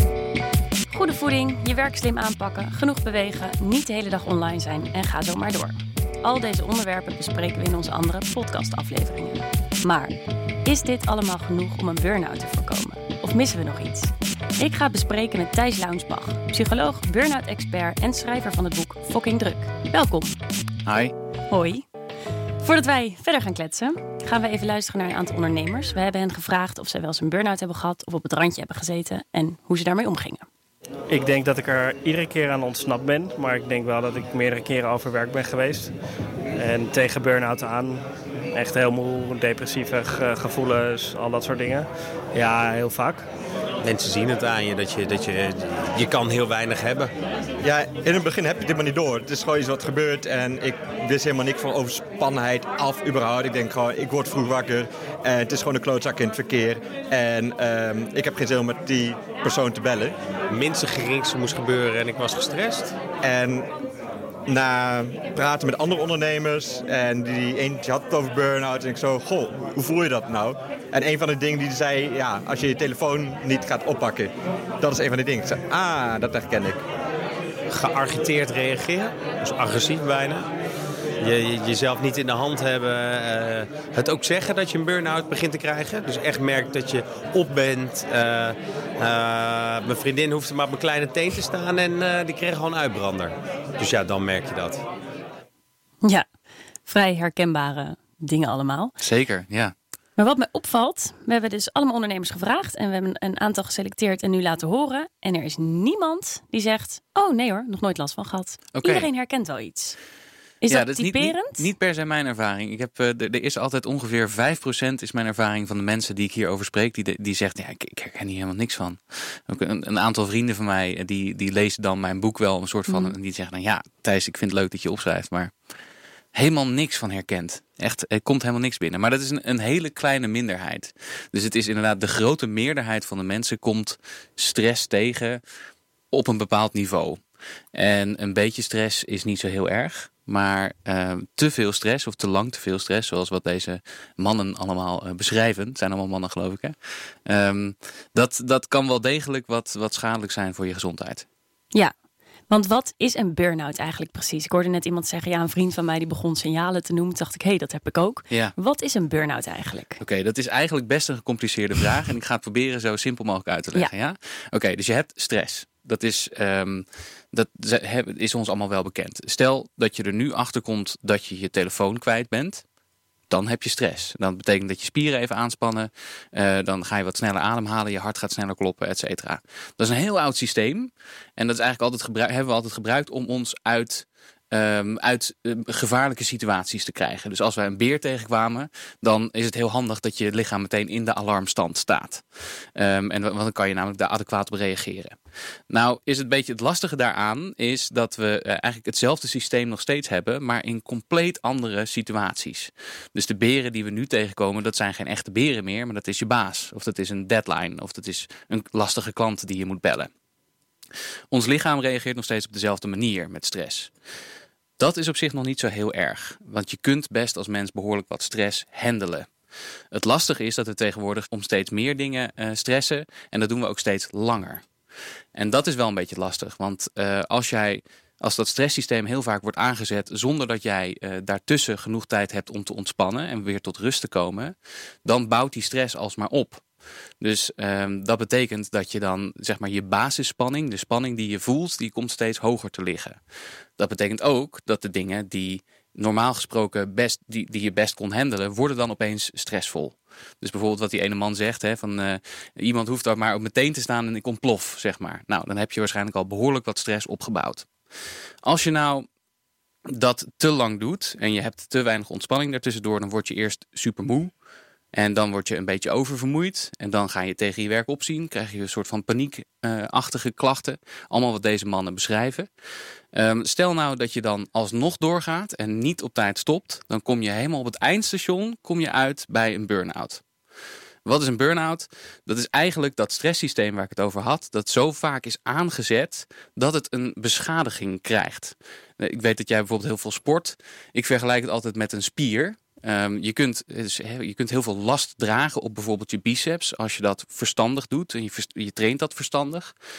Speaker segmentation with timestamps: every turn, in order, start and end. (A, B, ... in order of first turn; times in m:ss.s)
0:00.9-0:20.4 A
0:20.8-0:21.1 B
0:21.5-0:21.8 A
0:22.6-0:30.4 A
0:31.1-0:35.9 C
0:36.5-0:43.2 C
0:43.8-0:47.1 D
0:47.6-1:00.1 E
1:00.5-1:02.9 D
1:03.2-1:03.7 E
1:04.5-1:16.8 E
1:17.7-1:20.4 D
1:21.2-1:34.8 D
1:36.8-1:39.0 A
1:39.0-1:39.7 B
1:40.2-1:50.0 A
1:48.7-1:49.1 B
1:50.6-1:51.6 A
1:50.7-2:05.5 B
2:02.9-2:03.2 A
2:06.3-2:15.4 B
2:16.1-2:17.2 B
2:17.7-2:31.2 B
2:32.5-2:40.0 A
2:40.0-2:52.6 B
2:53.3-3:15.2 B
3:15.7-3:30.1 B
3:31.3-3:33.9 B
3:34.8-3:39.3 B
3:39.9-3:44.6 B
3:45.3-3:56.6 B
3:57.2-4:03.2 B
4:03.8-4:17.7 B
4:18.4-4:19.0 B
4:19.8-4:24.3 B
4:24.9-4:32.5 B
4:33.1-4:40.2 B
4:41.0-4:59.7 B